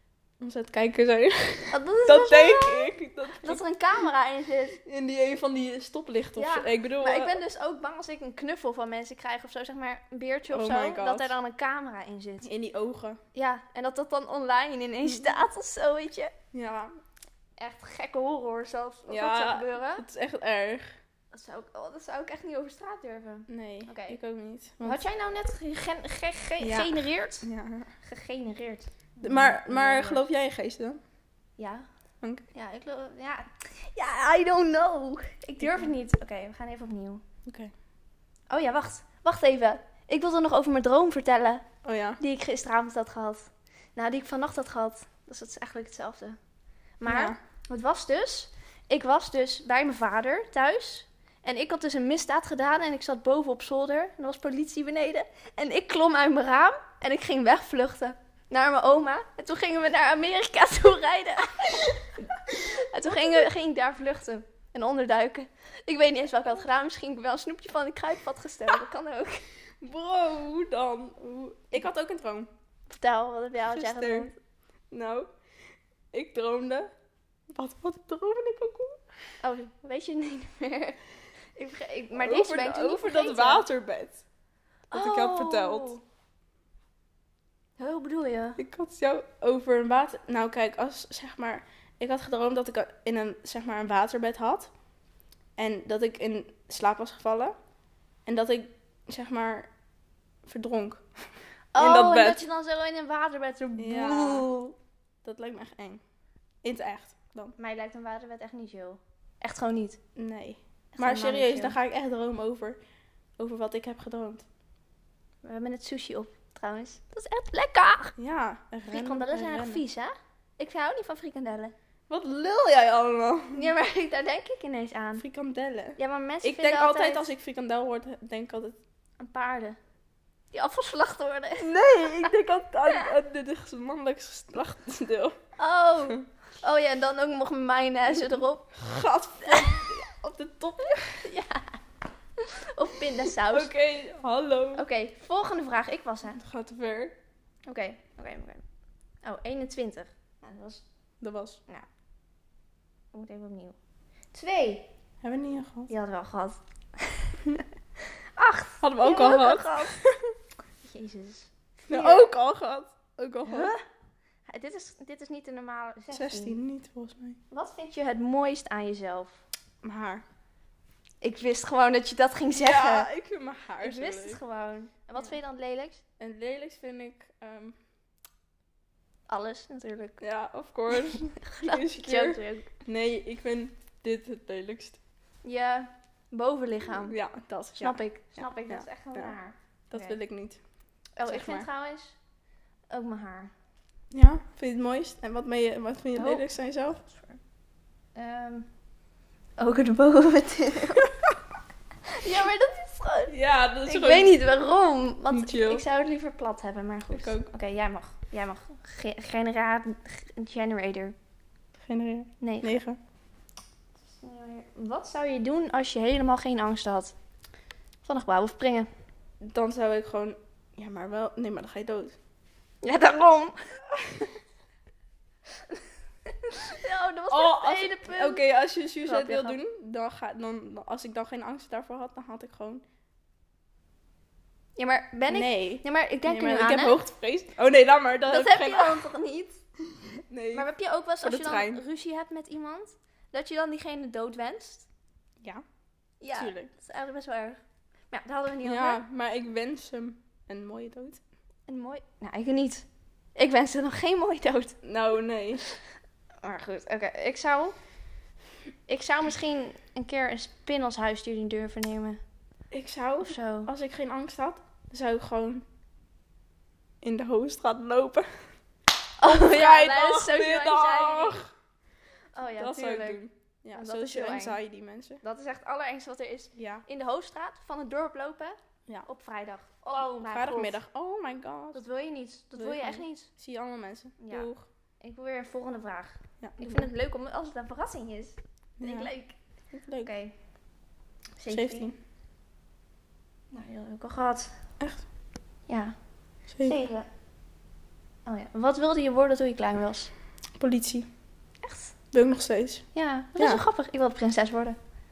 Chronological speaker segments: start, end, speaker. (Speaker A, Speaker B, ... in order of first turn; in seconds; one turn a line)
Speaker A: 0.4-3.6
Speaker B: 1.7-4.8
Speaker A: 4.8-7.4
Speaker B: 6.4-12.5
Speaker A: 10.5-11.3
Speaker A: 12.4-13.2
Speaker B: 13.3-16.3
Speaker A: 15.0-15.3
Speaker A: 16.5-16.9
Speaker B: 17.6-20.0
Speaker A: 19.1-20.9
Speaker B: 21.3-24.2
Speaker A: 23.5-25.0
Speaker B: 24.8-27.5
Speaker A: 26.6-27.9
Speaker B: 28.0-30.2
Speaker A: 29.2-31.0
Speaker B: 31.6-31.9
Speaker B: 32.5-37.2
Speaker A: 35.6-35.9
Speaker A: 37.5-37.7
Speaker B: 38.5-41.6
Speaker A: 41.8-42.2
Speaker B: 42.2-46.4
Speaker B: 47.0-69.5
Speaker A: 47.0-47.4
Speaker A: 69.8-72.5
Speaker B: 72.9-74.3
Speaker A: 73.7-74.3
Speaker A: 74.9-75.3
Speaker A: 76.1-76.9
Speaker A: 77.5-79.0
Speaker B: 79.4-81.0
Speaker B: 81.5-83.7
Speaker A: 82.1-84.2
Speaker B: 84.9-86.0
Speaker A: 84.9-86.0
Speaker B: 87.8-88.6
Speaker A: 88.6-94.7
Speaker A: 95.6-97.5
Speaker A: 98.2-99.7
Speaker A: 100.5-101.0
Speaker B: 101.7-104.8
Speaker A: 101.8-102.4
Speaker A: 103.8-104.5
Speaker A: 105.2-106.0
Speaker A: 106.6-107.5
Speaker B: 107.6-110.0
Speaker A: 110.2-112.8
Speaker B: 110.9-111.8
Speaker A: 113.4-114.4
Speaker B: 115.4-118.1
Speaker A: 118.2-119.8
Speaker B: 118.9-121.7
Speaker A: 122.1-123.7
Speaker B: 123.5-125.2
Speaker A: 125.2-128.8
Speaker B: 126.0-127.3
Speaker B: 129.2-129.8
Speaker B: 130.5-131.7
Speaker A: 131.6-135.3
Speaker B: 135.6-138.7
Speaker A: 138.1-141.2
Speaker B: 139.5-139.9
Speaker B: 141.2-141.7
Speaker B: 142.4-143.7
Speaker A: 143.4-144.8
Speaker B: 144.7-146.4
Speaker A: 146.3-147.2
Speaker B: 147.7-148.6
Speaker B: 149.2-150.8
Speaker A: 151.2-151.6
Speaker B: 153.1-153.7
Speaker B: 154.3-154.9
Speaker A: 155.2-155.9
Speaker B: 155.9-157.5
Speaker B: 158.4-159.9
Speaker A: 158.8-160.3
Speaker B: 160.8-162.3
Speaker A: 161.9-163.7
Speaker B: 163.4-163.8
Speaker B: 164.5-166.6
Speaker A: 166.1-167.4
Speaker B: 167.5-169.4
Speaker A: 169.8-170.2
Speaker B: 171.2-173.1
Speaker A: 172.6-174.4
Speaker B: 173.8-176.0
Speaker A: 176.2-177.8
Speaker B: 179.3-180.2
Speaker A: 180.2-185.0
Speaker B: 181.0-182.7
Speaker B: 185.4-187.2
Speaker A: 187.0-189.3
Speaker B: 187.8-190.2
Speaker A: 189.9-190.6
Speaker B: 191.2-192.2
Speaker A: 191.2-191.7
Speaker B: 192.9-193.5
Speaker A: 194.1-197.0
Speaker B: 196.2-196.4
Speaker B: 197.0-197.4
Speaker B: 198.1-198.7
Speaker B: 199.6-201.1
Speaker B: 202.1-211.1
Speaker A: 203.3-204.3
Speaker A: 205.3-205.8
Speaker A: 207.1-207.5
Speaker A: 211.8-213.0
Speaker B: 212.4-212.8
Speaker B: 214.1-217.1
Speaker B: 218.0-218.9
Speaker A: 219.4-222.2
Speaker B: 222.8-223.6
Speaker B: 225.7-228.4
Speaker A: 227.3-232.8
Speaker B: 229.0-229.6
Speaker B: 234.8-237.0
Speaker A: 235.3-239.1
Speaker B: 238.3-239.6
Speaker A: 240.3-240.7
Speaker B: 240.5-244.9
Speaker A: 241.2-241.8
Speaker B: 246.2-247.6
Speaker A: 246.3-246.7
Speaker B: 248.1-249.0
Speaker A: 248.6-251.2
Speaker B: 251.7-254.8
Speaker A: 254.8-255.6
Speaker B: 256.4-257.7
Speaker B: 258.9-262.2
Speaker A: 262.7-265.6
Speaker B: 263.2-263.7
Speaker A: 267.0-268.3
Speaker B: 269.2-271.4
Speaker A: 269.2-271.5
Speaker B: 272.3-273.2
Speaker A: 272.6-275.2
Speaker B: 273.8-274.6
Speaker B: 275.2-280.8
Speaker A: 276.6-276.8
Speaker A: 280.0-281.8
Speaker B: 281.7-283.3
Speaker A: 282.6-284.6
Speaker B: 284.2-284.5
Speaker B: 285.0-289.4
Speaker A: 286.4-286.9
Speaker A: 288.8-289.1
Speaker A: 289.7-290.1
Speaker B: 290.0-290.3
Speaker B: 291.4-291.9
Speaker A: 291.5-291.9
Speaker B: 293.5-294.5
Speaker B: 295.7-295.9
Speaker A: 296.5-296.8
Speaker B: 296.6-297.1
Speaker B: 298.2-300.1
Speaker A: 300.6-301.1
Speaker B: 301.6-301.9
Speaker A: 302.1-302.8
Speaker B: 302.9-304.8
Speaker A: 303.4-303.6